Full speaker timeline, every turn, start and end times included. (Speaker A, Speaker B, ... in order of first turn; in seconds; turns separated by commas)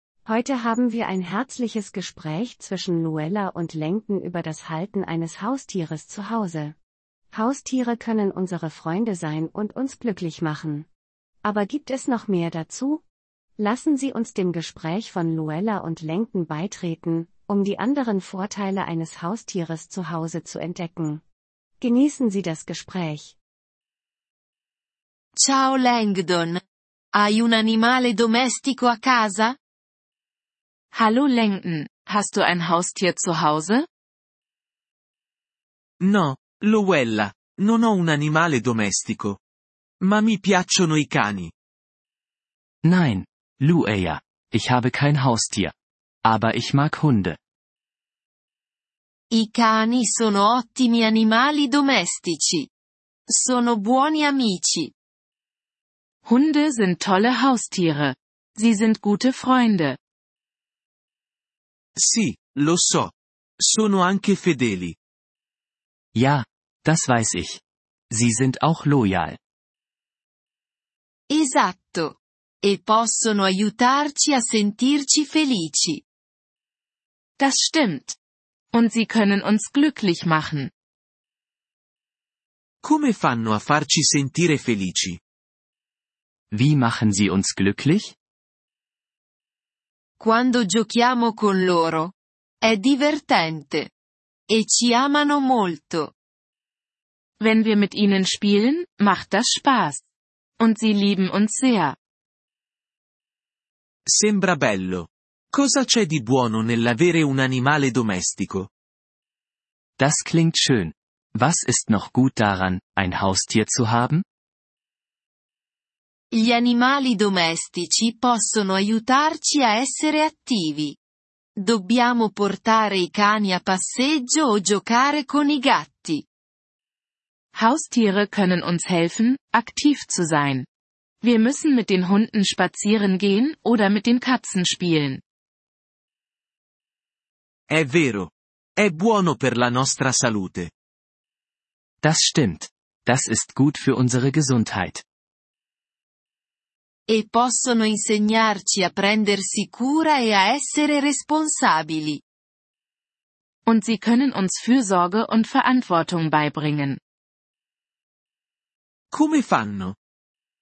Speaker A: 0.2-6.8, Speaker A: 7.3-10.9, Speaker A: 11.4-13.0, Speaker A: 13.6-21.2, Speaker A: 21.8-23.4, Speaker B: 25.4-26.6, Speaker B: 27.1-29.6, Speaker C: 30.9-33.9, Speaker D: 36.0-39.4, Speaker D: 40.0-41.5, Speaker E: 42.8-47.4, Speaker B: 49.3-52.7, Speaker B: 53.3-54.9, Speaker C: 56.2-60.0, Speaker D: 62.0-65.0, Speaker E: 66.2-69.4, Speaker B: 71.3-76.0, Speaker C: 77.4-78.2, Speaker C: 78.7-80.7, Speaker D: 82.8-85.2, Speaker E: 86.5-88.2, Speaker B: 90.2-93.9, Speaker B: 94.5-96.1, Speaker C: 97.4-100.0, Speaker C: 100.6-102.0, Speaker D: 104.1-108.7, Speaker E: 110.0-114.2, Speaker B: 116.3-121.0, Speaker B: 121.6-126.2, Speaker C: 127.5-130.7, Speaker C: 131.2-135.2, Speaker D: 137.7-140.7, Speaker E: 142.0-145.0, Speaker B: 147.1-152.2, Speaker C: 153.7-157.0, Speaker D: 159.1-160.0